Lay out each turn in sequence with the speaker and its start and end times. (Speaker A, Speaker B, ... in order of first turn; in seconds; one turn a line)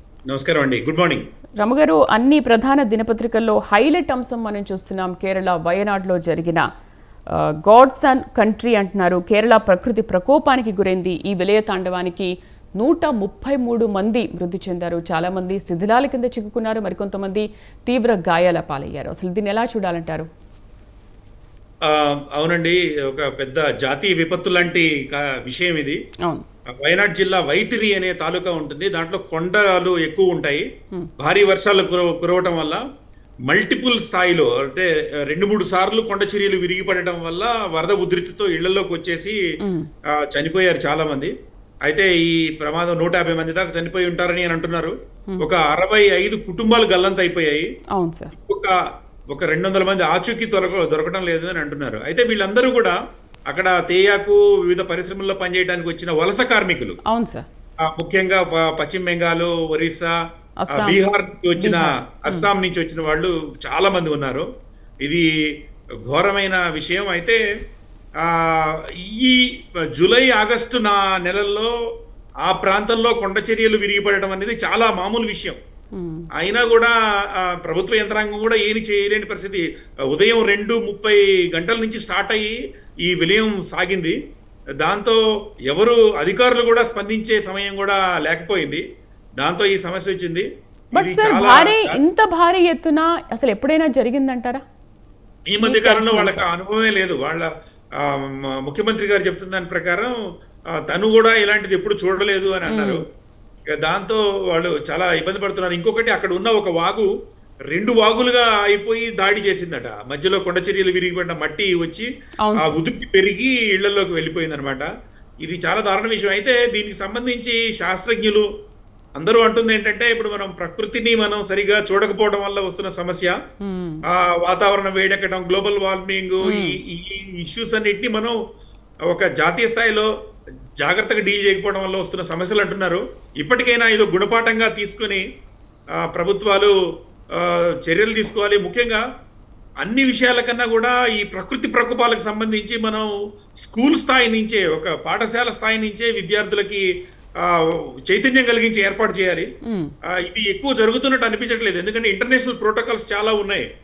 Speaker A: 0.3-1.2
Speaker B: 1.6-6.6
Speaker B: 7.3-20.3
Speaker A: 21.9-26.0
Speaker A: 26.8-30.6
Speaker A: 31.2-32.8
Speaker A: 33.5-39.4
Speaker B: 39.6-39.9
Speaker A: 40.2-41.3
Speaker A: 41.9-47.7
Speaker B: 48.0-48.3
Speaker A: 48.4-48.7
Speaker A: 49.3-53.0
Speaker A: 53.5-57.0
Speaker B: 57.1-57.4
Speaker A: 57.9-60.1
Speaker B: 60.6-61.0
Speaker A: 60.8-64.4
Speaker B: 61.6-62.5
Speaker A: 66.1-67.4
Speaker A: 68.2-69.4
Speaker A: 70.0-71.7
Speaker A: 72.5-75.6
Speaker B: 76.0-76.3
Speaker A: 76.4-82.5
Speaker A: 83.1-84.2
Speaker A: 84.8-85.2
Speaker A: 85.7-88.8
Speaker A: 89.4-92.0
Speaker B: 91.0-94.6
Speaker A: 95.5-97.5
Speaker B: 95.6-96.4
Speaker A: 98.0-100.1
Speaker A: 100.9-103.0
Speaker B: 102.7-103.0
Speaker A: 103.8-107.1
Speaker A: 107.7-112.1
Speaker B: 112.4-112.7
Speaker A: 112.6-114.9
Speaker A: 115.4-118.4
Speaker A: 119.2-123.3
Speaker B: 123.6-124.0
Speaker A: 124.1-128.3
Speaker B: 126.5-126.8
Speaker A: 129.1-130.1
Speaker A: 130.8-135.2
Speaker A: 136.1-136.7
Speaker A: 137.4-139.0
Speaker A: 139.8-143.1
Speaker A: 143.6-146.8
Speaker A: 147.4-149.5
Speaker B: 149.7-149.9
Speaker A: 150.2-153.6